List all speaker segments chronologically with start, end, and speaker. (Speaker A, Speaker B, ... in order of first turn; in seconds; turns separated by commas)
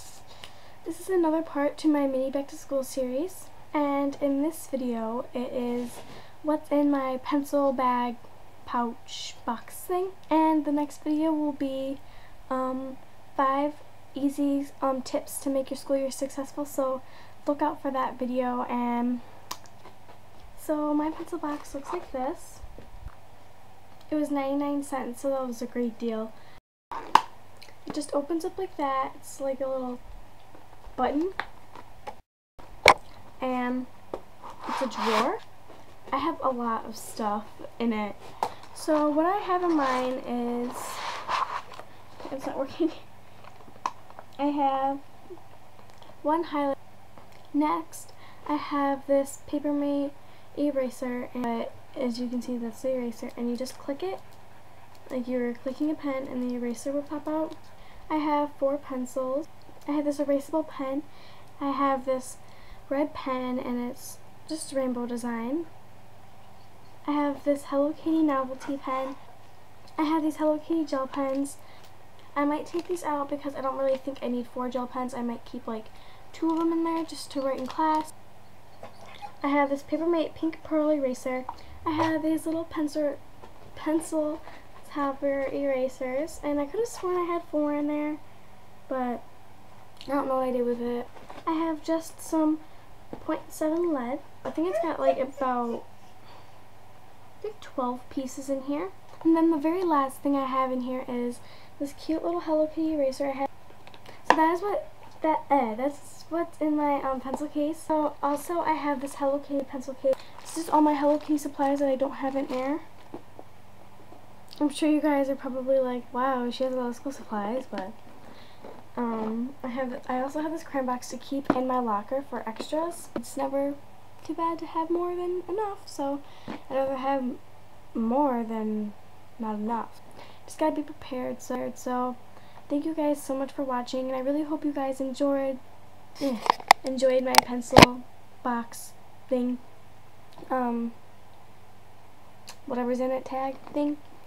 Speaker A: 0.8-19.2, Speaker A: 20.5-22.6, Speaker A: 24.1-26.3, Speaker A: 27.9-30.0, Speaker A: 30.9-31.3, Speaker A: 33.4-33.9, Speaker A: 34.7-35.4, Speaker A: 36.1-38.2, Speaker A: 38.7-41.0, Speaker A: 42.2-43.1, Speaker A: 44.4-45.0, Speaker A: 46.2-46.8, Speaker A: 47.5-54.2, Speaker A: 55.1-57.6, Speaker A: 58.1-61.0, Speaker A: 61.6-65.7, Speaker A: 67.0-69.2, Speaker A: 70.0-71.6, Speaker A: 72.3-78.1, Speaker A: 79.4-83.2, Speaker A: 83.7-88.2, Speaker A: 88.9-89.2, Speaker A: 90.1-92.6, Speaker A: 93.2-95.9, Speaker A: 97.4-103.5, Speaker A: 104.2-112.8, Speaker A: 114.6-118.0, Speaker A: 119.0-127.4, Speaker A: 127.9-135.6, Speaker A: 136.2-139.6, Speaker A: 140.5-140.9, Speaker A: 142.7-144.0